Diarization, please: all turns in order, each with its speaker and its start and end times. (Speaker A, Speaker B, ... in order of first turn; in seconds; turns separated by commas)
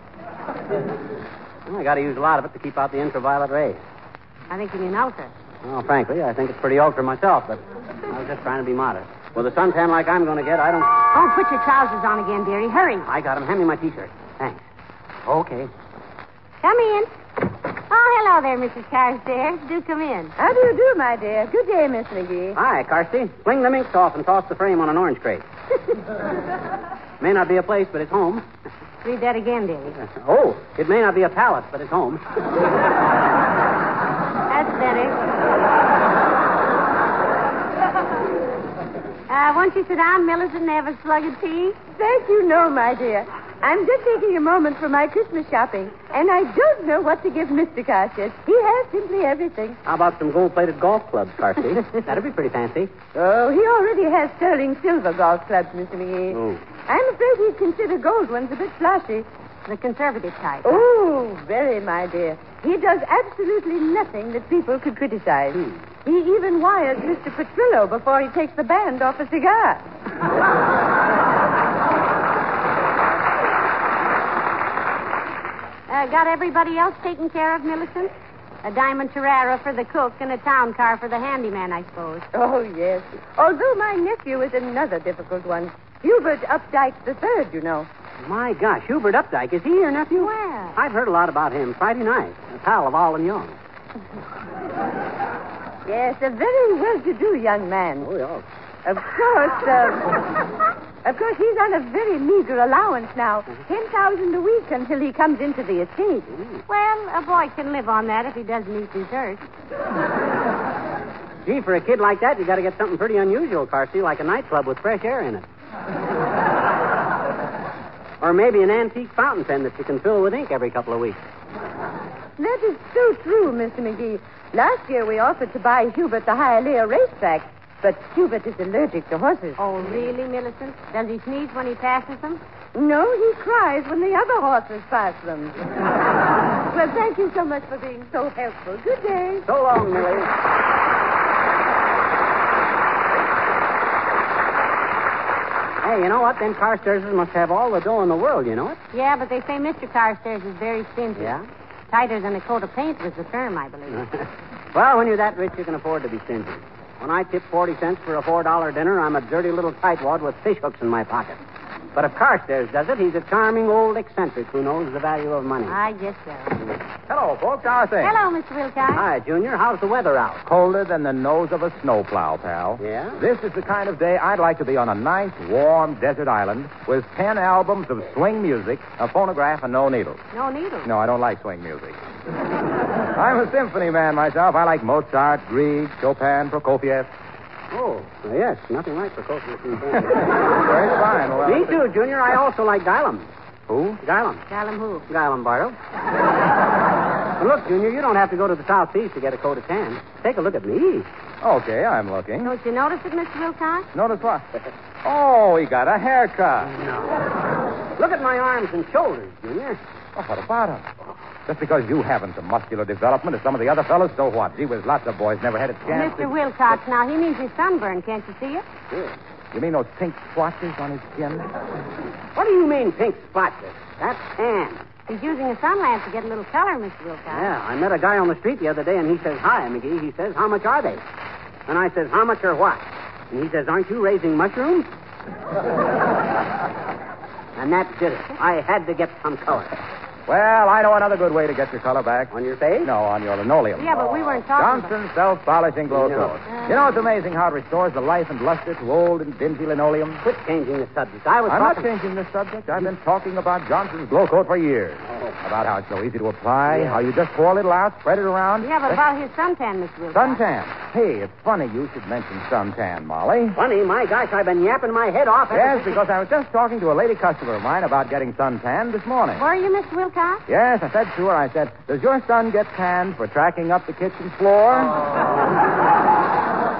Speaker A: 1.7-3.8, Speaker B: 4.5-5.3, Speaker A: 5.6-11.0, Speaker B: 11.1-13.1, Speaker A: 13.1-14.6, Speaker A: 15.2-15.7, Speaker B: 16.6-17.1, Speaker B: 17.9-20.3, Speaker C: 20.4-22.6, Speaker A: 22.6-25.4, Speaker A: 27.2-28.5, Speaker B: 29.0-30.0, Speaker A: 30.0-32.3, Speaker B: 34.5-35.2, Speaker B: 39.3-41.8, Speaker C: 42.0-49.8, Speaker A: 49.9-52.9, Speaker C: 53.1-59.3, Speaker A: 56.3-56.6, Speaker B: 59.7-60.9, Speaker C: 60.6-69.8, Speaker A: 65.5-65.8, Speaker B: 75.9-78.1, Speaker B: 78.6-82.3, Speaker C: 82.3-87.9, Speaker A: 88.2-93.6, Speaker B: 90.2-90.8, Speaker C: 95.9-98.1, Speaker A: 98.0-98.4, Speaker C: 98.8-100.3, Speaker C: 101.0-106.3, Speaker A: 106.3-106.6, Speaker B: 106.7-109.4, Speaker A: 111.5-115.5, Speaker A: 118.2-121.2, Speaker C: 122.4-129.6, Speaker B: 129.6-132.4, Speaker C: 132.8-135.6, Speaker C: 136.7-139.5, Speaker A: 139.5-140.3, Speaker A: 145.8-148.8, Speaker B: 148.9-151.3, Speaker A: 151.2-151.5, Speaker B: 151.9-154.1, Speaker A: 153.9-161.4, Speaker A: 161.9-165.8, Speaker B: 165.7-166.6, Speaker D: 167.1-168.2, Speaker B: 168.0-169.1, Speaker A: 168.9-170.4, Speaker D: 170.5-180.2, Speaker A: 172.8-173.2, Speaker B: 180.3-180.9, Speaker D: 180.8-182.0, Speaker D: 183.1-187.1, Speaker A: 187.7-190.5, Speaker D: 190.1-191.8, Speaker A: 191.4-193.3, Speaker D: 193.7-194.0, Speaker A: 194.0-194.4, Speaker B: 194.5-195.1, Speaker A: 195.1-195.8, Speaker A: 197.4-201.1, Speaker D: 201.4-202.5, Speaker B: 202.4-203.9, Speaker D: 203.9-204.5, Speaker D: 205.0-206.8, Speaker A: 206.7-207.3, Speaker A: 208.0-209.8, Speaker D: 210.2-210.9, Speaker D: 211.5-216.3, Speaker B: 215.9-218.6, Speaker A: 218.9-219.2, Speaker D: 219.5-221.5, Speaker A: 222.3-224.8, Speaker B: 225.1-227.5, Speaker A: 227.3-231.0, Speaker A: 231.7-234.9, Speaker A: 237.6-239.8, Speaker D: 240.3-250.2, Speaker A: 242.3-242.9, Speaker B: 243.8-244.9, Speaker A: 245.9-246.4, Speaker A: 250.2-251.9, Speaker D: 251.5-259.0, Speaker A: 255.1-255.4, Speaker A: 256.7-257.0, Speaker B: 258.6-260.4, Speaker D: 260.1-263.6, Speaker A: 263.6-266.0, Speaker D: 265.5-269.5, Speaker B: 269.4-270.4, Speaker D: 270.5-275.0